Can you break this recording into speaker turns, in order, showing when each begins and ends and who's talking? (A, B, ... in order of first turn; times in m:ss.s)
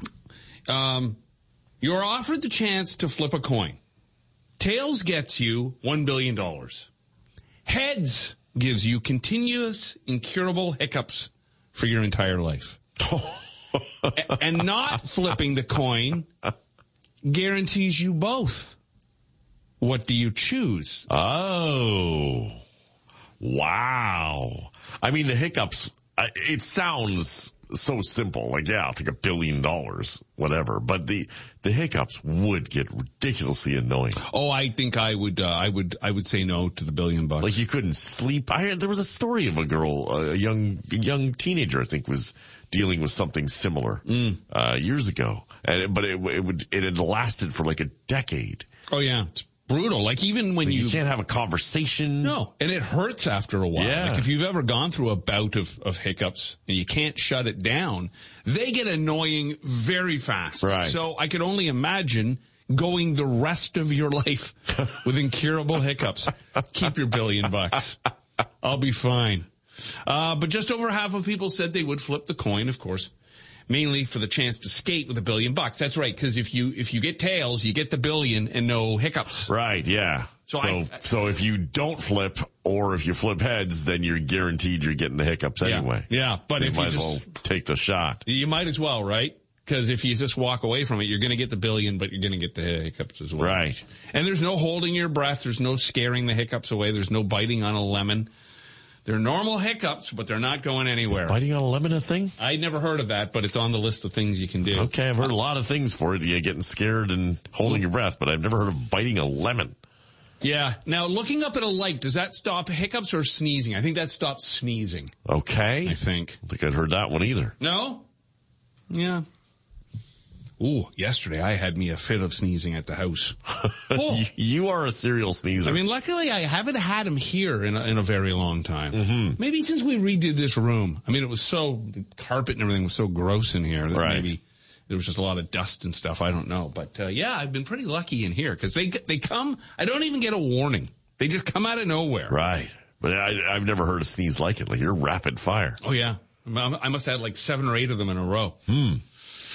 0:00.7-0:01.2 A
0:01.8-0:03.8 A
0:04.6-0:06.9 A
0:07.7-0:12.8 A
0:13.0-0:14.3 B
0:14.2-0:16.3 A
0:17.2-0:18.8 A
0:19.8-0:21.1 A
0:21.1-0:22.6 B
0:23.4-0:34.2 B
0:34.2-0:37.6 A
0:37.4-0:48.7 B
0:44.1-0:44.4 A
0:48.9-0:51.0 A
0:50.6-0:52.4 B
0:52.2-1:08.0 A
0:53.8-0:54.3 B
1:00.6-1:01.0 B
1:08.6-1:09.5 A
1:10.0-1:13.1 A
1:13.7-1:19.5 A
1:19.5-1:28.2 B
1:20.5-1:21.0 A
1:25.6-1:27.2 A
1:28.2-1:38.3 A
1:33.4-1:33.8 B
1:39.0-1:41.4 A
1:41.1-1:42.4 B
1:42.4-1:44.9 A
1:44.7-1:49.8 B
1:50.4-1:55.1 A
1:55.3-1:57.6 B
1:55.8-1:56.4 A
1:57.6-1:58.1 A
1:58.9-1:59.2 A
2:00.6-2:04.3 A
2:03.6-2:05.8 B
2:05.6-2:22.4 A
2:08.9-2:09.4 B
2:13.9-2:14.3 B
2:22.3-2:25.8 B
2:25.8-2:28.6 A
2:28.7-2:29.0 B